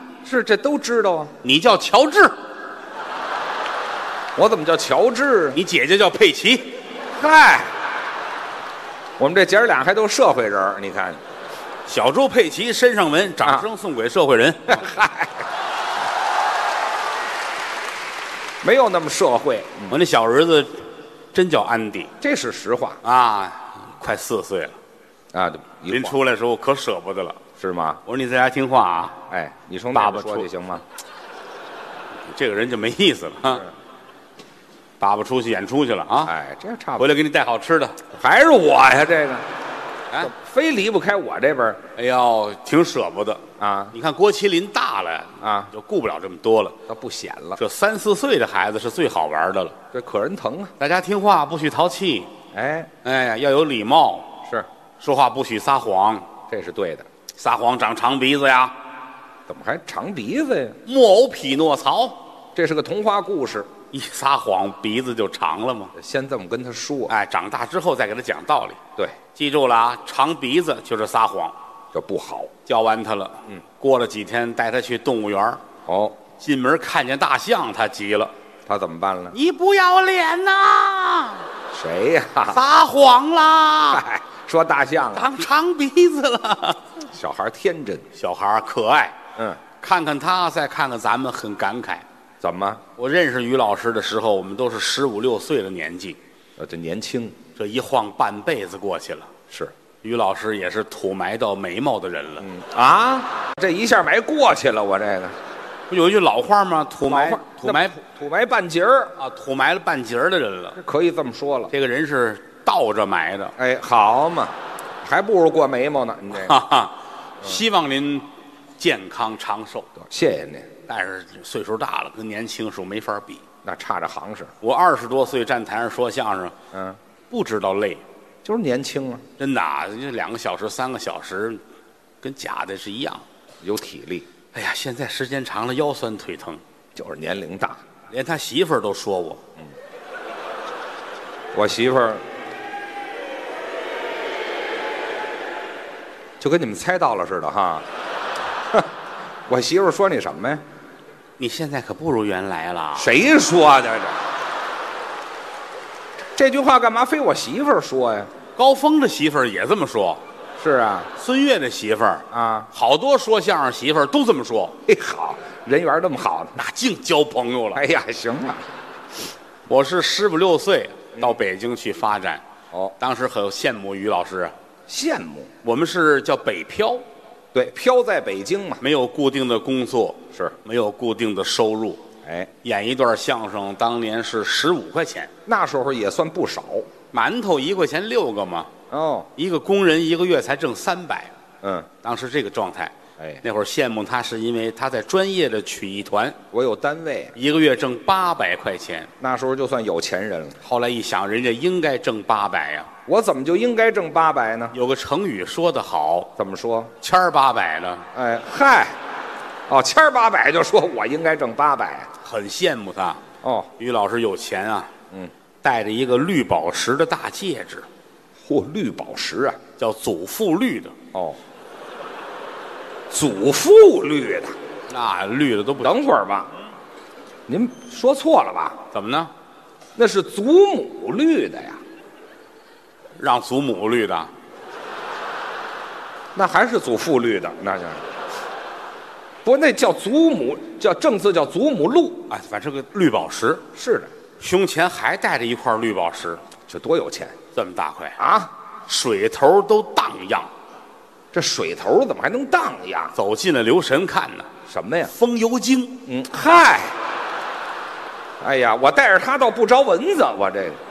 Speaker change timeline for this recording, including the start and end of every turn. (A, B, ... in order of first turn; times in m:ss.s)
0:00.2-0:01.3 A
0:01.4-0:02.3 B
0:04.4-0:05.6 A
0:05.5-0:06.7 B
0:07.1-0:07.7 A
0:09.2-0:11.2 A
0:11.9-0:14.9 B
0:14.7-0:15.4 A
0:18.6-0:20.0 A
0:19.9-0:22.1 B
0:22.2-0:23.0 A
0:23.0-0:24.8 B
0:25.3-0:26.2 A
0:25.9-0:27.4 B
0:27.6-0:28.0 A
0:28.0-0:29.2 B
0:29.3-0:30.8 A
0:29.9-0:30.5 B
0:32.3-0:33.7 B
0:35.0-0:36.3 B
0:36.2-0:37.1 A
0:37.0-0:38.0 B
0:38.1-0:39.5 A
0:40.2-0:41.8 A
0:42.0-0:46.8 B
0:43.6-0:43.9 A
0:45.4-0:45.7 A
0:46.9-0:47.6 A
0:47.6-0:49.8 B
0:49.9-0:50.7 A
0:50.8-0:52.3 B
0:52.5-0:52.9 A
0:53.0-0:54.4 B
0:55.0-0:56.3 B
0:56.5-0:57.0 A
0:57.4-0:58.8 B
0:59.5-1:00.8 A
1:00.8-1:02.2 B
1:02.5-1:03.7 A
1:03.9-1:05.9 B
1:05.9-1:07.1 A
1:07.1-1:08.8 B
1:09.3-1:11.5 B
1:11.9-1:12.5 A
1:12.6-1:15.6 B
1:15.8-1:16.2 A
1:16.4-1:18.3 B
1:18.7-1:19.3 A
1:19.3-1:21.4 B
1:21.7-1:22.6 A
1:22.5-1:24.0 B
1:23.9-1:25.3 A
1:25.1-1:27.0 B
1:27.1-1:28.0 A
1:28.1-1:29.2 B
1:29.8-1:32.0 B
1:32.4-1:32.8 A
1:33.0-1:36.2 B
1:36.6-1:37.4 A
1:37.6-1:39.3 B
1:40.0-1:42.5 B
1:42.4-1:45.3 A
1:45.9-1:48.0 B
1:47.1-1:49.1 A
1:49.2-1:50.8 B
1:50.8-1:51.7 A
1:51.7-1:53.5 B
1:53.6-1:56.6 A
1:56.3-1:58.3 B
1:58.8-1:59.9 B
2:00.0-2:00.7 A
2:00.9-2:03.4 B
2:03.6-2:04.5 A
2:04.6-2:06.5 B
2:06.7-2:07.0 A
2:07.3-2:08.0 B
2:08.4-2:09.2 A
2:09.4-2:11.6 B
2:12.2-2:13.2 B
2:13.6-2:14.3 A
2:14.5-2:16.6 B
2:16.9-2:17.8 A
2:18.1-2:19.4 B
2:21.5-2:22.2 A
2:26.4-2:27.8 A
2:29.5-2:30.6 A
2:31.4-2:33.1 B
2:33.0-2:34.2 A
2:36.4-2:38.3 A
2:38.6-2:40.2 B
2:40.6-2:41.1 A
2:41.2-2:44.8 B
2:42.3-2:42.7 A
2:44.9-2:46.6 A
2:46.6-2:47.8 B
2:47.7-2:48.6 A
2:49.7-2:52.4 B
2:53.0-2:54.5 B
2:54.9-2:55.5 A
2:55.6-2:57.0 B
2:57.5-2:58.8 A
2:58.8-3:02.0 B
3:02.2-3:02.5 A
3:02.6-3:05.3 B
3:05.4-3:06.9 A
3:07.1-3:08.7 B
3:08.9-3:09.3 A
3:09.4-3:11.3 B
3:11.6-3:11.9 A
3:12.0-3:16.4 B
3:16.5-3:17.3 A
3:17.3-3:19.1 B
3:19.2-3:20.6 A
3:20.6-3:22.9 B
3:23.0-3:24.7 A
3:24.7-3:26.3 B
3:26.4-3:26.9 A
3:27.0-3:28.0 B
3:28.1-3:29.0 A
3:29.7-3:32.1 A
3:32.2-3:33.2 B
3:33.4-3:33.7 A
3:33.8-3:34.9 B
3:35.6-3:37.9 B
3:38.4-3:39.6 A
3:39.8-3:40.9 B
3:41.1-3:41.4 A
3:43.1-3:44.6 A
3:44.9-3:46.0 B
3:45.8-3:46.5 A
3:47.5-3:48.8 A
3:48.9-3:49.3 B
3:50.0-3:51.8 A
3:53.2-3:54.3 B
3:56.3-3:58.0 A
3:59.4-4:02.3 A
4:02.3-4:03.6 B
4:03.7-4:04.1 A
4:04.4-4:06.4 B
4:06.7-4:07.4 A
4:07.5-4:08.2 B
4:08.2-4:08.5 A
4:08.9-4:10.5 B
4:11.3-4:13.1 A
4:13.1-4:14.5 B
4:14.7-4:15.1 A
4:15.1-4:16.0 B
4:16.0-4:17.0 A
4:18.4-4:20.8 A